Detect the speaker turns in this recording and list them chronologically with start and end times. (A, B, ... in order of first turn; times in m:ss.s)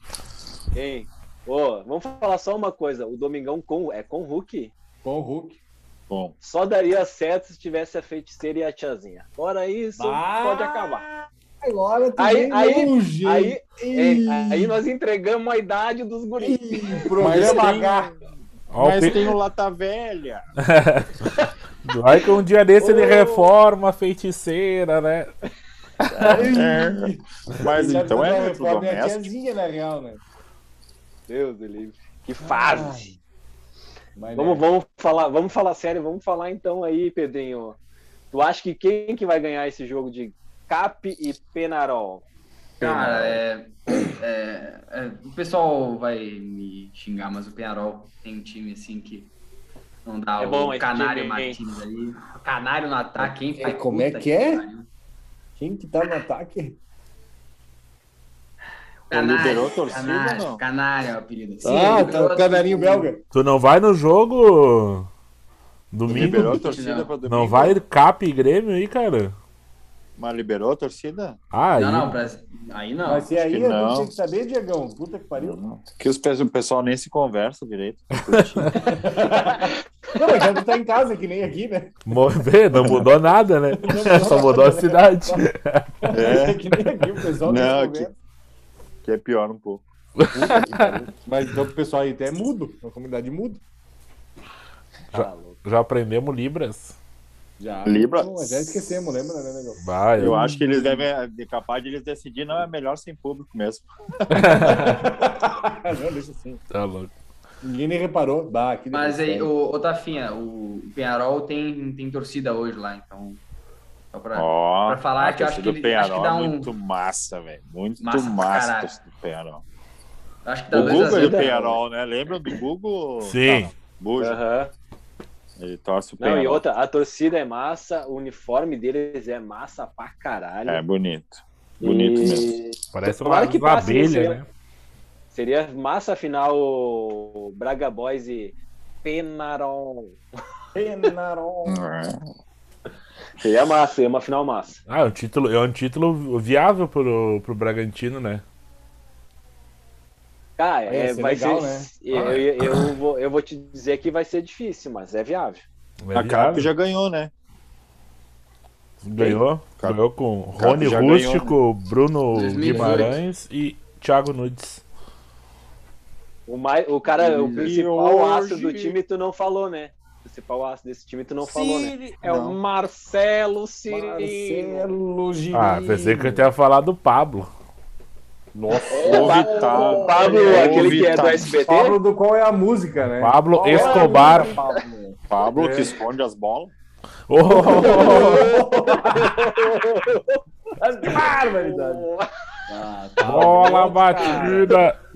0:00.8-0:04.7 A
0:05.0-0:05.6 B
0:06.1-0:06.4 C
0:06.4-0:11.1 A
0:10.0-0:14.8 B
0:12.2-0:17.9 A
0:16.4-0:18.1 B
0:17.2-0:18.1 C
0:18.7-0:19.3 D
0:18.8-0:20.5 C
0:20.6-0:21.3 D
0:21.8-0:25.3 D
0:22.8-0:23.6 A
0:26.0-0:29.3 C
0:26.1-0:30.2 B
0:27.8-0:28.2 D
0:31.3-0:33.1 A
0:32.4-0:33.2 B
0:34.2-0:34.6 B
0:34.4-0:37.8 A
0:38.3-0:42.2 A
0:42.8-0:49.3 E
0:42.8-0:43.4 B
0:50.0-0:54.9 E
0:50.4-0:51.6 A
0:53.2-0:54.6 B
0:55.6-0:56.8 B
0:59.1-1:03.1 E
0:59.1-1:00.6 C
1:01.6-1:03.2 B
1:03.3-1:05.1 D
1:05.9-1:09.3 D
1:06.1-1:07.8 C
1:06.1-1:06.5 B
1:06.5-1:07.1 E
1:10.2-1:11.4 C
1:11.5-1:12.2 D
1:11.8-1:13.3 E
1:13.0-1:15.6 B
1:13.4-1:14.1 C
1:15.4-1:19.0 C
1:18.8-1:22.2 B
1:22.1-1:26.1 D
1:22.7-1:23.0 C
1:23.8-1:25.5 B
1:26.0-1:28.2 B
1:26.1-1:26.6 C
1:27.5-1:28.1 C
1:29.0-1:29.8 C
1:30.2-1:31.0 D
1:30.3-1:33.6 B
1:35.1-1:35.6 A
1:35.1-1:37.0 D
1:37.6-1:41.0 B
1:37.9-1:38.8 C
1:39.8-1:40.4 D
1:40.2-1:45.0 C
1:44.3-1:45.2 D
1:44.4-1:46.6 B
1:46.7-1:47.1 D
1:47.6-1:49.5 B
1:48.9-1:53.4 E
1:54.1-1:56.7 E
1:54.4-1:59.6 C
1:58.0-1:59.0 E
2:00.4-2:01.5 E
2:00.7-2:04.4 C
2:00.7-2:01.8 A
2:03.2-2:03.7 D
2:04.2-2:04.7 A
2:05.6-2:06.6 C
2:06.2-2:10.8 A
2:10.7-2:12.6 C
2:11.8-2:14.4 A
2:12.9-2:14.5 D
2:15.3-2:20.2 A
2:20.8-2:21.8 B
2:21.7-2:22.2 C
2:23.4-2:24.8 A
2:24.9-2:28.4 D
2:30.6-2:35.6 A
2:30.9-2:32.4 B
2:36.0-2:36.7 D
2:36.1-2:37.3 C
2:39.0-2:44.8 D
2:39.2-2:40.0 C
2:40.6-2:41.6 C
2:42.3-2:43.2 E
2:46.5-2:54.9 A
2:47.2-2:47.8 E
2:47.6-2:49.0 C
2:51.4-2:52.6 C
2:53.9-2:56.5 B
2:55.5-2:57.5 D
2:58.5-2:59.9 B
2:58.9-3:01.1 E
2:59.0-3:01.5 C
2:59.0-3:02.0 A
3:00.7-3:05.9 B
3:03.2-3:04.6 D
3:03.7-3:04.6 A
3:05.3-3:06.7 C
3:07.3-3:08.6 D
3:07.5-3:09.7 B
3:07.6-3:10.4 A
3:10.8-3:12.1 B
3:11.0-3:12.3 A
3:12.7-3:14.2 E
3:13.2-3:14.8 B
3:13.2-3:15.0 D